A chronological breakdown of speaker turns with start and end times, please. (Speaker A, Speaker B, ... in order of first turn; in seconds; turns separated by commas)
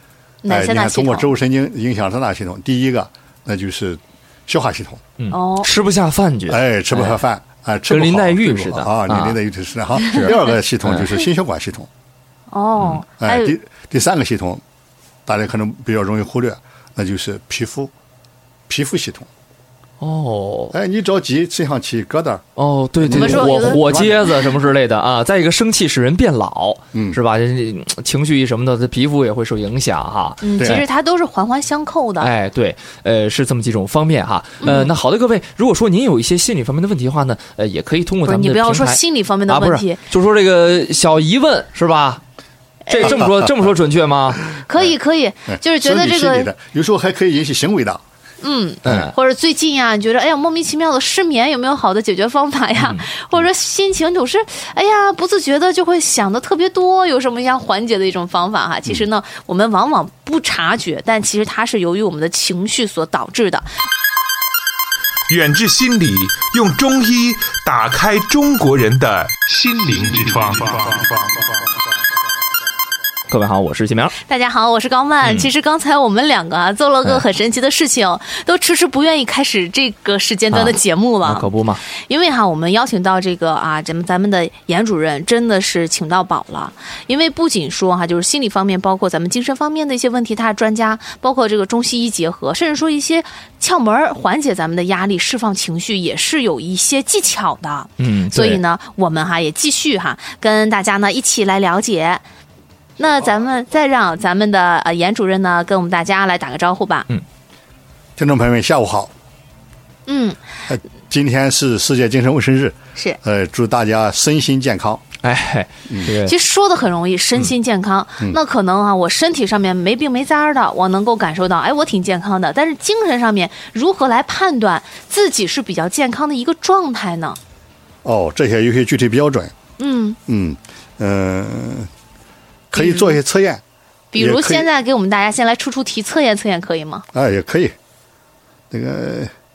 Speaker A: 0.4-1.3, Speaker B: 0.5-5.0, Speaker C: 5.2-7.2, Speaker A: 5.3-5.7, Speaker B: 6.5-11.9, Speaker C: 7.9-9.4, Speaker C: 10.1-11.1, Speaker A: 12.5-13.6, Speaker B: 13.2-14.6, Speaker B: 15.2-17.9, Speaker B: 18.7-19.3, Speaker C: 20.0-20.7, Speaker B: 20.7-22.4, Speaker C: 22.6-30.8, Speaker B: 23.0-24.4, Speaker A: 23.1-24.2, Speaker B: 26.9-27.2, Speaker A: 30.4-32.3, Speaker C: 32.2-42.2, Speaker A: 34.6-34.9, Speaker A: 38.2-40.0, Speaker A: 42.9-43.2, Speaker C: 42.9-44.5, Speaker B: 43.0-43.5, Speaker A: 44.6-46.5, Speaker B: 45.5-48.0, Speaker A: 48.4-63.7, Speaker C: 48.8-49.1, Speaker D: 65.3-71.3, Speaker C: 73.3-74.2, Speaker A: 74.2-102.2, Speaker C: 75.2-75.5, Speaker C: 80.5-81.8, Speaker C: 98.0-98.6, Speaker A: 103.0-107.1, Speaker B: 108.2-109.1, Speaker A: 110.1-110.4, Speaker B: 110.7-115.0, Speaker C: 115.2-116.3, Speaker A: 116.1-127.4, Speaker B: 128.0-129.5, Speaker A: 129.8-130.2, Speaker B: 130.3-131.9, Speaker A: 132.7-133.2, Speaker B: 132.7-133.6, Speaker A: 134.1-137.1, Speaker B: 134.1-134.7, Speaker B: 137.1-137.8, Speaker B: 138.7-139.3